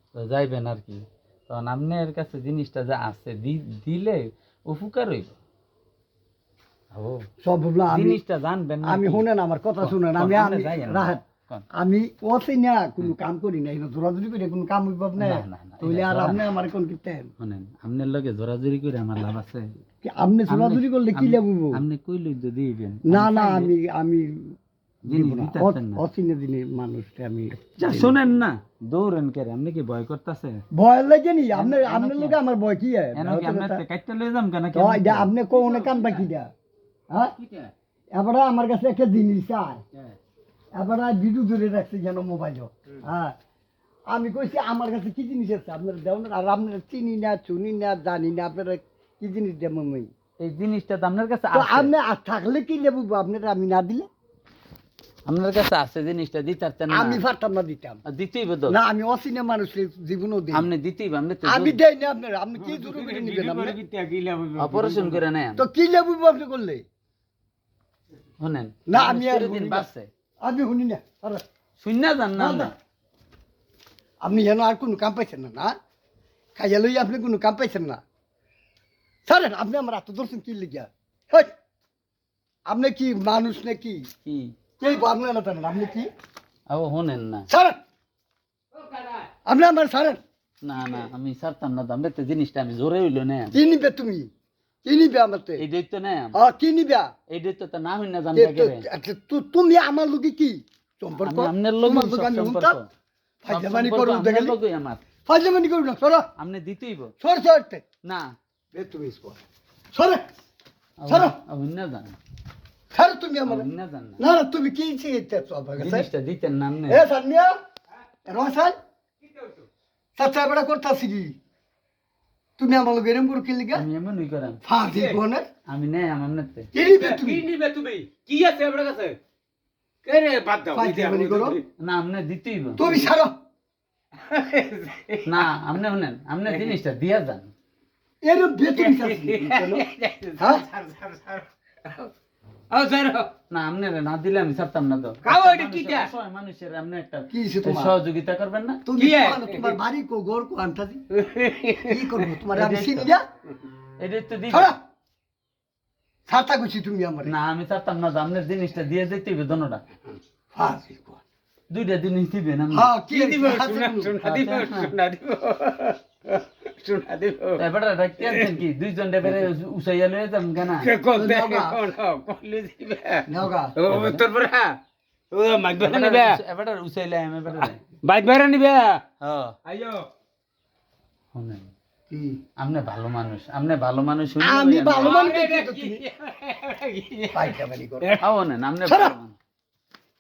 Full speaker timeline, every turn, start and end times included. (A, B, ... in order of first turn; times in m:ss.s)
0:00.1-0:05.4 A
0:06.9-0:07.2 A
0:07.4-0:08.2 B
0:07.9-0:09.3 A
0:08.8-0:17.3 B
0:09.8-0:11.6 A
0:15.2-0:16.5 A
0:17.4-0:19.7 A
0:20.0-0:21.8 B
0:20.5-0:23.7 A
0:23.1-0:24.6 B
0:25.1-0:26.0 A
0:25.1-0:28.2 B
0:27.8-0:30.6 A
0:30.7-0:33.8 B
0:31.5-0:32.4 A
0:33.2-0:35.3 A
0:34.7-0:36.5 B
0:35.5-0:36.2 C
0:38.1-0:39.8 B
0:40.7-0:43.4 B
0:44.1-0:50.1 B
0:50.4-0:51.9 A
0:51.5-0:54.1 B
0:55.3-0:57.2 A
0:56.9-0:58.0 B
0:58.1-0:58.8 A
0:58.7-1:00.7 B
1:00.5-1:01.8 A
1:01.4-1:03.8 B
1:02.6-1:05.2 C
1:04.6-1:05.6 A
1:05.6-1:06.8 B
1:08.4-1:10.1 A
1:08.9-1:09.9 B
1:10.4-1:11.4 B
1:11.8-1:12.7 A
1:12.4-1:12.7 B
1:14.2-1:15.8 B
1:16.6-1:18.0 B
1:19.3-1:21.5 B
1:22.7-1:24.1 B
1:24.2-1:24.6 A
1:24.8-1:26.1 B
1:26.7-1:27.5 A
1:27.5-1:27.8 B
1:28.8-1:29.3 C
1:29.5-1:30.2 B
1:30.6-1:33.6 A
1:33.5-1:34.3 B
1:34.8-1:35.6 B
1:35.6-1:36.4 A
1:36.4-1:37.1 B
1:37.3-1:38.8 A
1:38.4-1:42.8 B
1:41.2-1:42.9 A
1:43.4-1:44.6 B
1:43.5-1:45.0 A
1:45.3-1:46.3 B
1:46.4-1:47.1 A
1:47.2-1:47.8 B
1:48.0-1:48.3 A
1:48.7-1:49.4 B
1:49.9-1:50.2 B
1:51.0-1:52.2 A
1:51.1-1:51.4 B
1:52.9-1:53.7 B
1:53.5-1:54.2 A
1:54.2-1:56.1 B
1:55.8-1:57.0 A
1:56.9-1:57.5 B
1:58.3-1:58.8 B
1:59.2-1:59.7 C
2:00.2-2:01.3 B
2:02.6-2:03.9 B
2:03.7-2:04.6 A
2:04.6-2:05.5 B
2:04.8-2:05.2 C
2:05.7-2:06.7 A
2:06.7-2:07.5 B
2:06.9-2:09.2 C
2:10.0-2:11.7 C
2:10.7-2:11.6 B
2:11.8-2:13.1 A
2:12.8-2:13.3 B
2:14.2-2:15.5 C
2:15.3-2:17.5 A
2:18.2-2:19.8 B
2:18.7-2:22.1 C
2:20.4-2:20.6 B
2:22.7-2:23.3 C
2:23.5-2:28.8 A
2:25.2-2:26.1 C
2:27.3-2:28.0 B
2:28.9-2:31.0 B
2:29.0-2:29.8 C
2:31.1-2:32.3 C
2:31.8-2:33.3 B
2:32.6-2:33.1 A
2:34.0-2:34.7 A
2:34.5-2:34.8 B
2:36.3-2:37.3 B
2:37.2-2:39.8 A
2:40.5-2:41.2 B
2:41.7-2:42.9 A
2:42.7-2:44.2 B
2:43.1-2:47.6 C
2:44.2-2:44.9 A
2:47.6-2:50.9 A
2:48.2-2:48.6 C
2:50.6-2:54.8 C
2:51.1-2:51.8 B
2:53.3-2:53.8 B
2:53.9-2:54.2 A
2:55.3-2:56.4 C
2:55.8-2:57.8 A
2:57.5-2:59.0 C
2:59.2-2:59.6 A
2:59.6-3:00.1 C
3:01.3-3:01.7 A
3:02.1-3:02.4 B
3:02.6-3:05.3 A
3:04.4-3:06.0 B
3:05.0-3:08.2 C
3:07.3-3:08.2 B
3:08.2-3:09.4 A
3:08.8-3:09.2 B